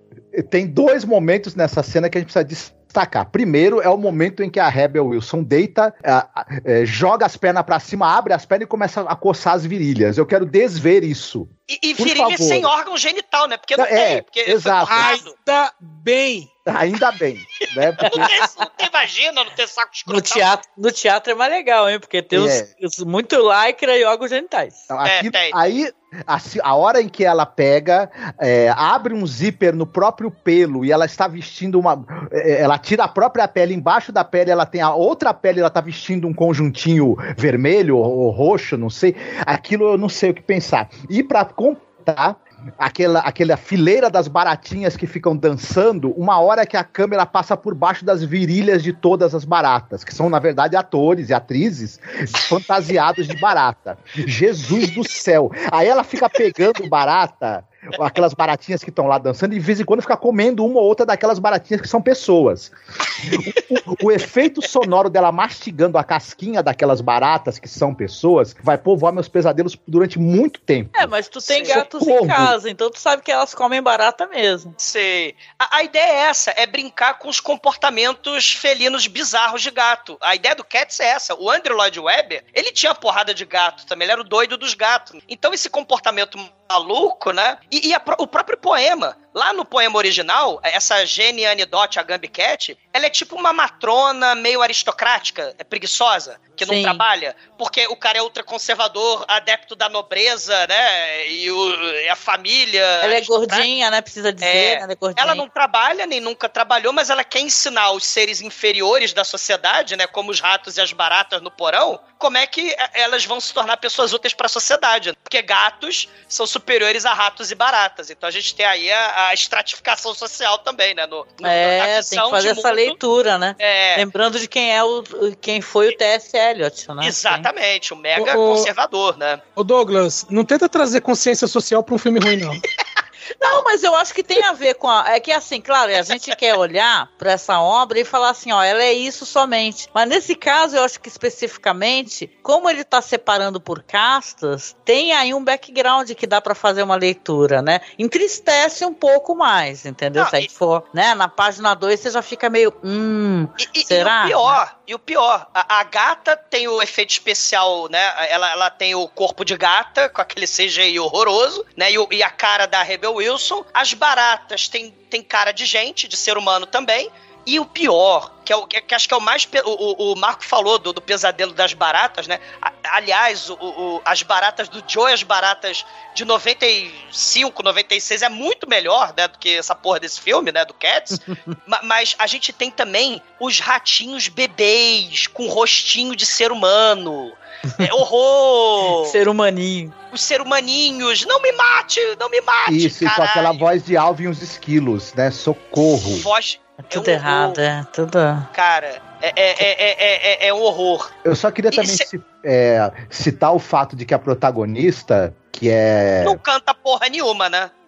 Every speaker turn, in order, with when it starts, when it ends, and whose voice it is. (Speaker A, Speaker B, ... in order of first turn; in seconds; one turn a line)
Speaker A: 0.3-12.7
Speaker B: 11.7-15.3
Speaker A: 13.8-15.2
Speaker C: 14.9-16.5
Speaker A: 16.7-18.3
Speaker B: 17.6-20.5
Speaker D: 18.0-18.6
Speaker D: 20.1-24.9
Speaker A: 22.3-22.7
Speaker A: 24.9-72.5
Speaker B: 25.0-25.6
Speaker D: 70.9-74.7
Speaker B: 74.8-103.7
Speaker D: 96.6-97.0
Speaker D: 103.0-105.4
Speaker B: 104.4-123.0
Speaker D: 121.4-127.5
Speaker B: 123.6-124.0
Speaker B: 127.0-129.4
Speaker C: 128.2-128.7
Speaker C: 129.6-132.6
Speaker D: 133.4-154.6
Speaker B: 150.2-150.5
Speaker B: 153.6-189.2
Speaker D: 181.3-181.5
Speaker D: 189.0-189.9
Speaker B: 190.1-193.7
Speaker A: 192.7-196.3
Speaker B: 195.8-197.6
Speaker D: 196.8-198.5
Speaker B: 198.5-201.1
Speaker A: 201.2-206.4
Speaker B: 201.7-202.1
Speaker B: 206.2-207.7